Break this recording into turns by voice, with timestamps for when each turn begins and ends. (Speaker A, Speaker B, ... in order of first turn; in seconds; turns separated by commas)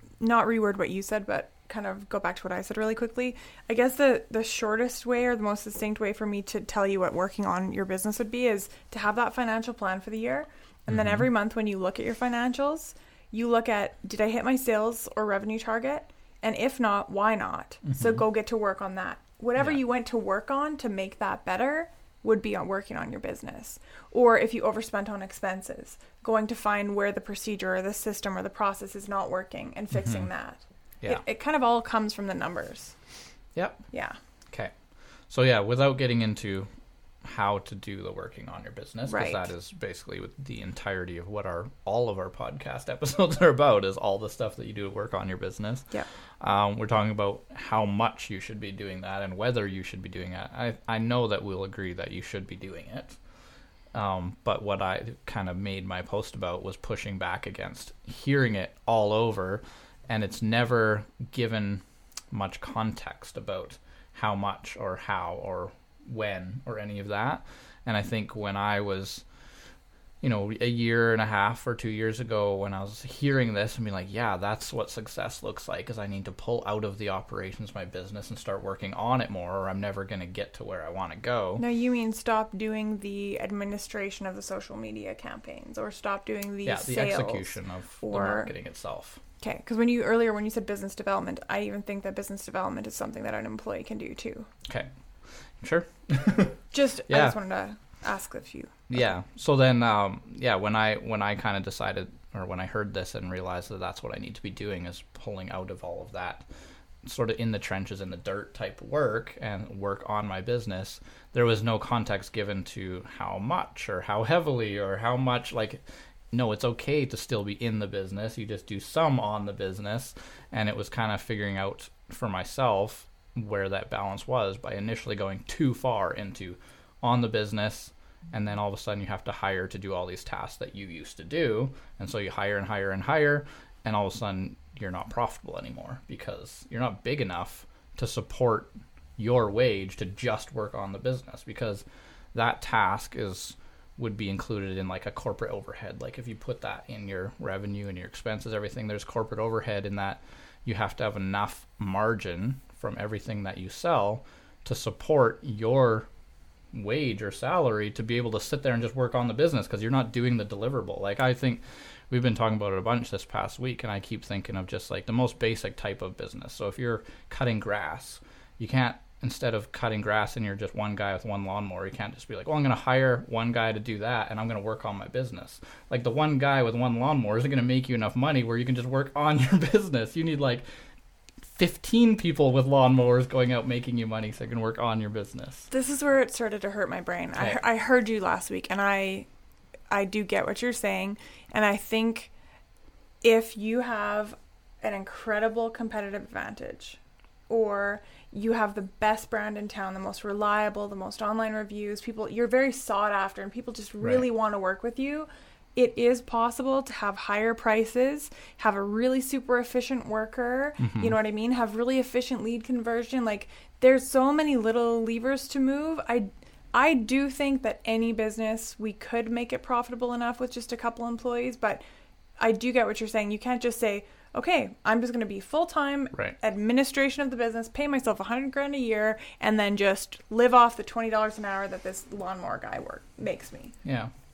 Speaker A: 0.2-33.0, Speaker B: 10.9-11.3, Speaker B: 17.9-18.2, Speaker B: 29.9-30.3, Speaker B: 33.5-33.9, Speaker A: 33.9-34.2, Speaker B: 35.3-36.7, Speaker B: 37.2-53.2, Speaker A: 39.1-39.5, Speaker B: 53.9-69.2, Speaker B: 70.2-81.6, Speaker A: 81.6-88.5, Speaker B: 86.7-89.2, Speaker A: 89.4-94.5, Speaker B: 94.7-94.9, Speaker B: 95.6-97.4, Speaker A: 96.7-98.9, Speaker B: 98.9-106.5, Speaker B: 107.0-156.1, Speaker B: 156.7-180.6, Speaker B: 181.4-185.7, Speaker A: 185.7-189.3, Speaker A: 189.9-192.3, Speaker A: 193.2-221.8, Speaker B: 210.8-211.2, Speaker A: 222.4-233.8, Speaker B: 233.8-234.1